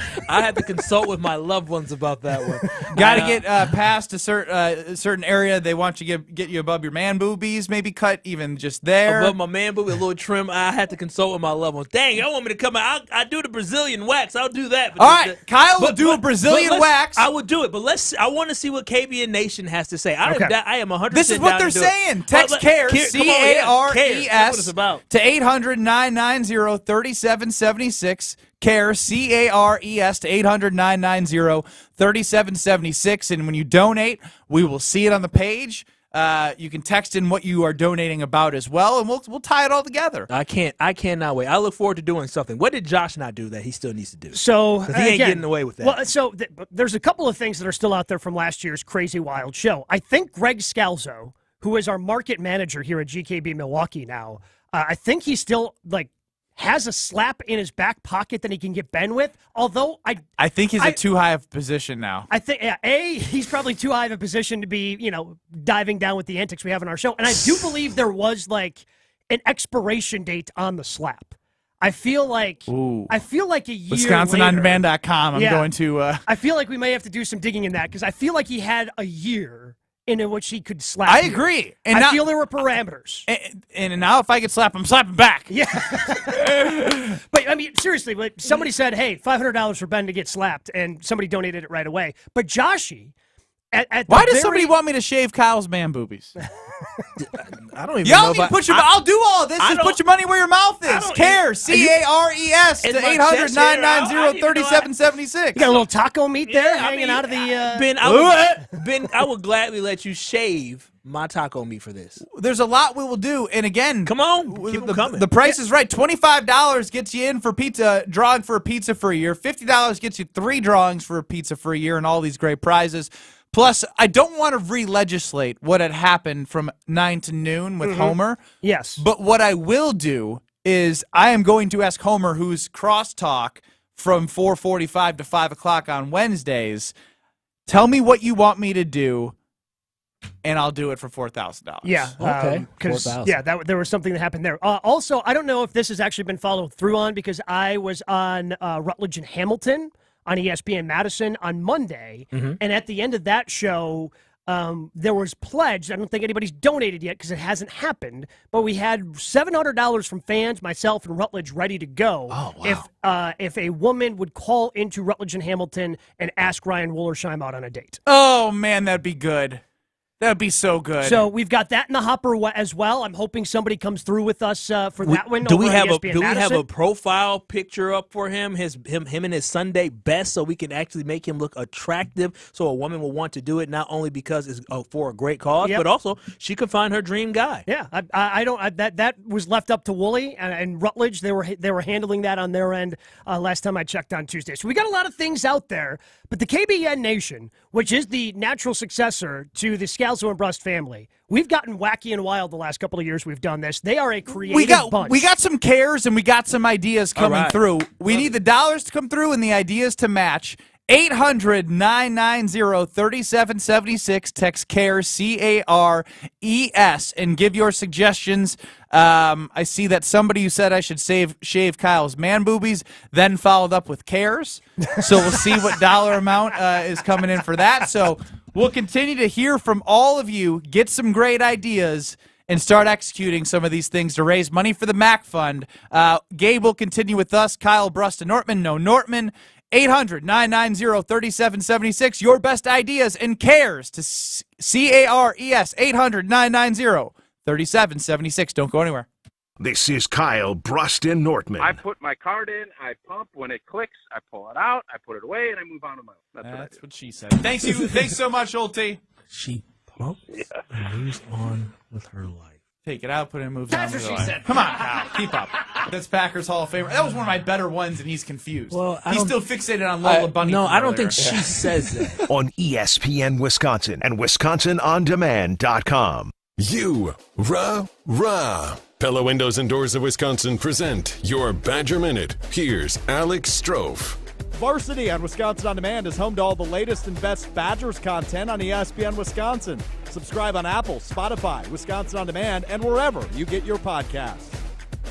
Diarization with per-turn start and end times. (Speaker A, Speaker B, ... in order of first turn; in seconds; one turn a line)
Speaker A: 0.2-3.6
Speaker B: 2.9-9.3
Speaker A: 9.1-25.0
Speaker B: 15.0-17.2
Speaker C: 20.2-20.5
Speaker B: 21.1-40.3
Speaker A: 40.3-46.0
Speaker C: 44.3-60.2
Speaker B: 60.4-62.3
Speaker C: 62.3-74.8
Speaker B: 72.7-73.1
Speaker B: 73.9-76.2
Speaker C: 75.3-75.7
Speaker C: 76.3-83.2
Speaker B: 81.0-82.3
Speaker B: 83.3-85.5
Speaker C: 85.5-86.5
Speaker C: 87.2-93.1
Speaker C: 93.7-94.7
Speaker B: 94.1-96.3
Speaker A: 97.2-98.9
Speaker B: 98.0-105.7
Speaker A: 99.6-100.0
Speaker A: 100.8-102.0
Speaker A: 102.8-104.9
Speaker C: 105.5-107.9
Speaker A: 105.5-105.8
Speaker A: 106.5-112.2
Speaker B: 108.0-108.6
Speaker B: 112.2-128.4
Speaker A: 114.0-115.3
Speaker C: 127.8-129.0
Speaker B: 129.0-136.9
Speaker B: 137.7-139.3
Speaker B: 140.4-142.1
Speaker C: 141.8-168.0
Speaker A: 142.2-143.4
Speaker A: 152.3-152.6
Speaker A: 162.3-162.8
Speaker B: 168.1-169.6
Speaker B: 170.2-171.2
Speaker C: 171.0-176.6
Speaker A: 175.0-187.6
Speaker C: 187.7-205.3
Speaker B: 204.5-249.1
Speaker A: 207.2-208.3
Speaker D: 249.6-251.8
Speaker E: 251.6-256.7
Speaker B: 256.4-259.0
Speaker A: 259.3-262.5
Speaker B: 262.8-271.3
Speaker A: 263.9-264.4
Speaker A: 268.7-269.4
Speaker A: 270.0-272.2
Speaker D: 272.3-276.3
Speaker F: 276.6-284.2
Speaker G: 284.5-294.5